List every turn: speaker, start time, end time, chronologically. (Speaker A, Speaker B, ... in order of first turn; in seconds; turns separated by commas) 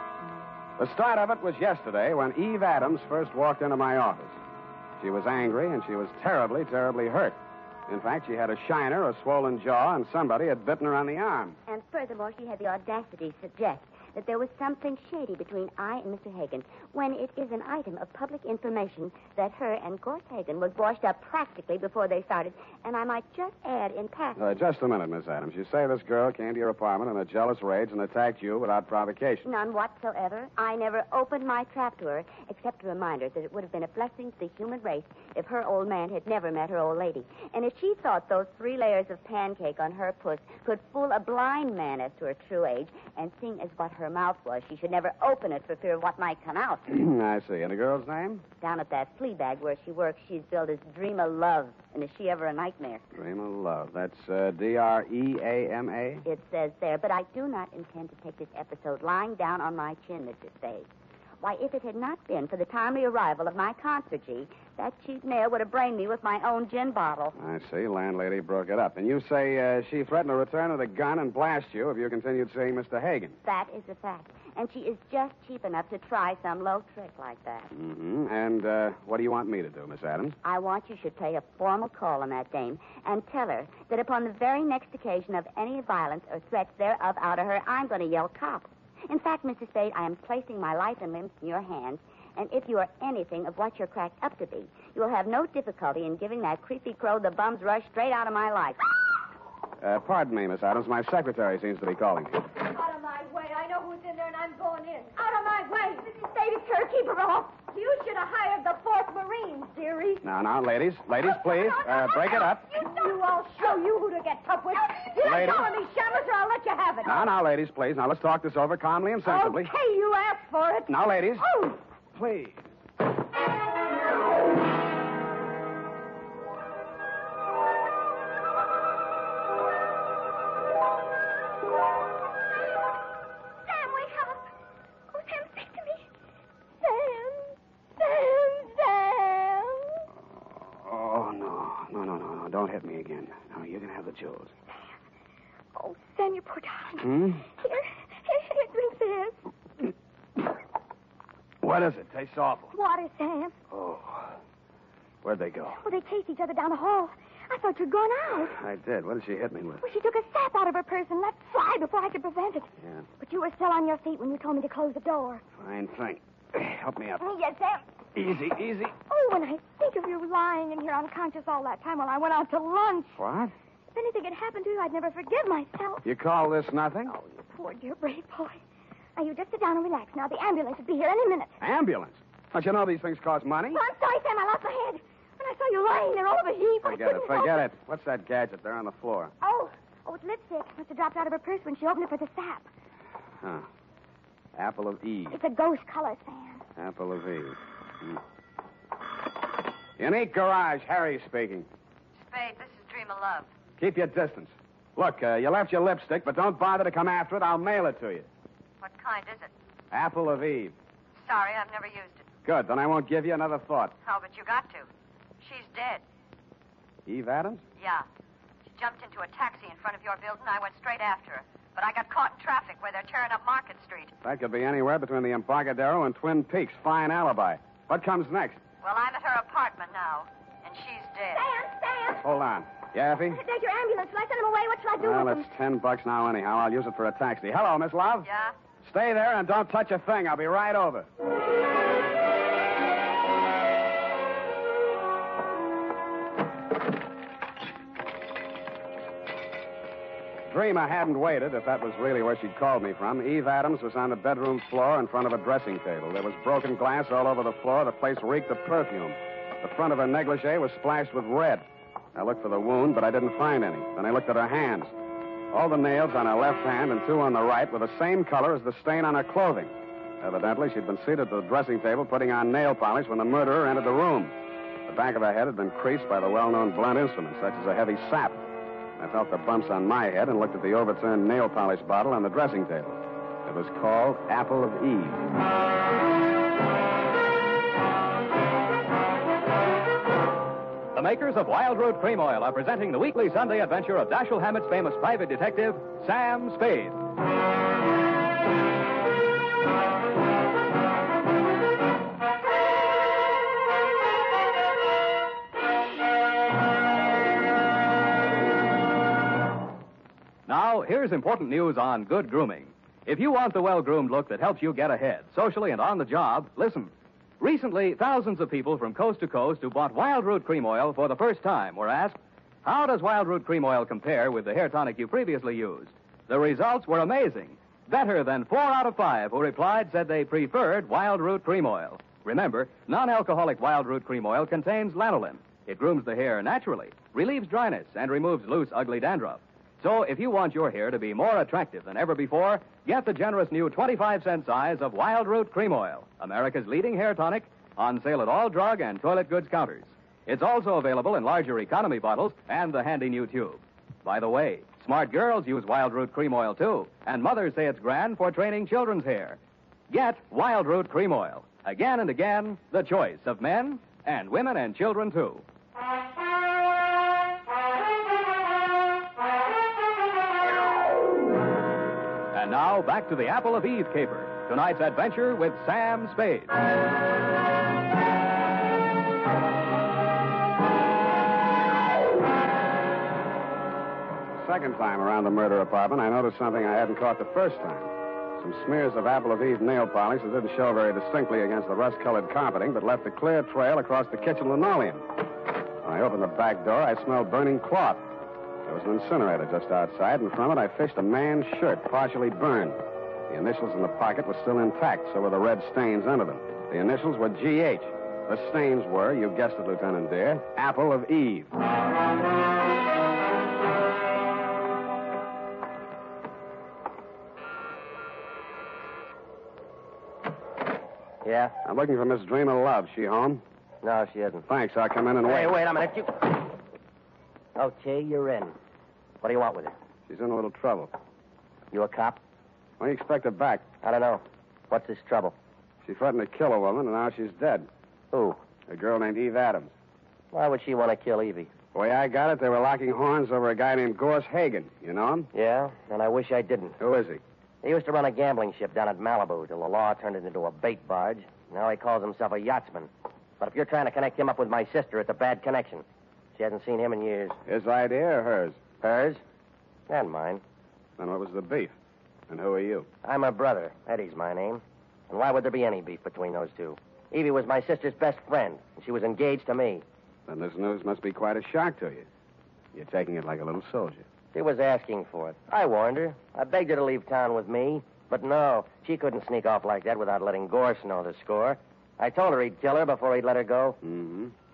Speaker A: 0.8-4.4, Speaker A: 5.0-7.4, Speaker A: 7.9-11.6, Speaker B: 11.7-24.4, Speaker A: 24.4-29.4, Speaker B: 29.4-46.8, Speaker A: 46.9-48.4, Speaker B: 48.6-53.0, Speaker A: 53.1-56.2, Speaker B: 56.2-60.9, Speaker B: 61.4-67.3, Speaker A: 67.3-73.4, Speaker B: 73.4-77.7, Speaker A: 77.7-80.4, Speaker B: 80.4-98.8, Speaker A: 99.8-102.5, Speaker C: 102.7-105.1, Speaker D: 105.1-110.2, Speaker C: 109.7-110.2, Speaker A: 110.2-112.7, Speaker D: 111.2-113.8, Speaker C: 112.8-115.6, Speaker D: 114.7-117.2, Speaker A: 115.2-115.7, Speaker C: 116.6-117.0, Speaker A: 117.0-119.7, Speaker C: 119.3-120.9, Speaker A: 120.9-121.5, Speaker D: 121.4-121.7, Speaker A: 122.1-122.6, Speaker D: 133.6-134.4, Speaker D: 135.1-136.1, Speaker D: 136.8-140.0, Speaker A: 140.6-144.5, Speaker D: 145.7-149.4, Speaker A: 147.0-147.4, Speaker A: 151.6-152.7, Speaker D: 152.7-153.5, Speaker A: 153.7-154.4, Speaker A: 155.2-155.8, Speaker D: 155.8-158.5, Speaker A: 158.5-159.8, Speaker D: 159.8-162.7, Speaker D: 163.2-165.4, Speaker A: 165.6-167.2, Speaker D: 167.2-167.8, Speaker A: 168.1-168.9, Speaker D: 169.1-173.2, Speaker A: 173.2-173.5, Speaker D: 173.9-176.0, Speaker A: 176.0-177.1, Speaker D: 177.1-178.6, Speaker D: 179.2-181.5, Speaker A: 181.6-183.8, Speaker D: 183.7-187.6, Speaker A: 186.8-189.3, Speaker D: 189.4-192.7, Speaker A: 193.4-193.7, Speaker A: 194.5-195.4, Speaker D: 195.3-196.6, Speaker A: 196.8-198.2, Speaker A: 200.0-201.7, Speaker E: 202.2-203.5, Speaker A: 203.8-208.3, Speaker E: 208.8-209.5, Speaker A: 209.9-210.7, Speaker E: 211.2-212.2, Speaker A: 212.4-213.9, Speaker E: 214.0-214.9, Speaker E: 215.4-216.0, Speaker A: 217.1-217.6, Speaker E: 217.8-218.1, Speaker E: 218.7-224.1, Speaker A: 224.2-228.6, Speaker E: 228.8-231.4, Speaker D: 231.3-232.2, Speaker A: 232.2-233.4, Speaker D: 233.3-235.4, Speaker A: 235.0-238.3, Speaker E: 238.2-238.5, Speaker A: 238.8-241.1, Speaker A: 250.5-264.9, Speaker A: 265.5-274.3, Speaker A: 274.9-278.4, Speaker A: 279.0-285.3, Speaker F: 290.9-297.0, Speaker F: 310.5-359.4, Speaker F: 359.9-365.4, Speaker F: 372.3-376.5, Speaker A: 384.4-395.0, Speaker A: 395.8-398.1, Speaker A: 398.6-411.5, Speaker G: 421.2-421.5, Speaker A: 421.6-423.4, Speaker G: 423.8-424.4, Speaker A: 424.5-425.5, Speaker G: 425.2-426.4, Speaker G: 427.6-428.5, Speaker G: 429.2-429.7, Speaker A: 430.1-430.9, Speaker G: 431.7-432.2, Speaker A: 432.8-433.7, Speaker G: 433.8-435.3, Speaker A: 435.8-437.7, Speaker G: 438.1-438.4, Speaker A: 438.7-439.7, Speaker G: 440.3-441.5, Speaker A: 441.7-445.3, Speaker G: 445.3-446.8, Speaker A: 446.8-447.2, Speaker G: 447.6-455.8, Speaker G: 456.4-457.4, Speaker A: 457.5-458.6, Speaker G: 458.8-459.2, Speaker G: 459.9-460.4, Speaker A: 461.0-461.7, Speaker A: 462.3-462.9, Speaker G: 463.0-469.8, Speaker A: 470.3-472.1, Speaker A: 472.7-474.1, Speaker G: 474.3-483.8, Speaker A: 483.8-484.3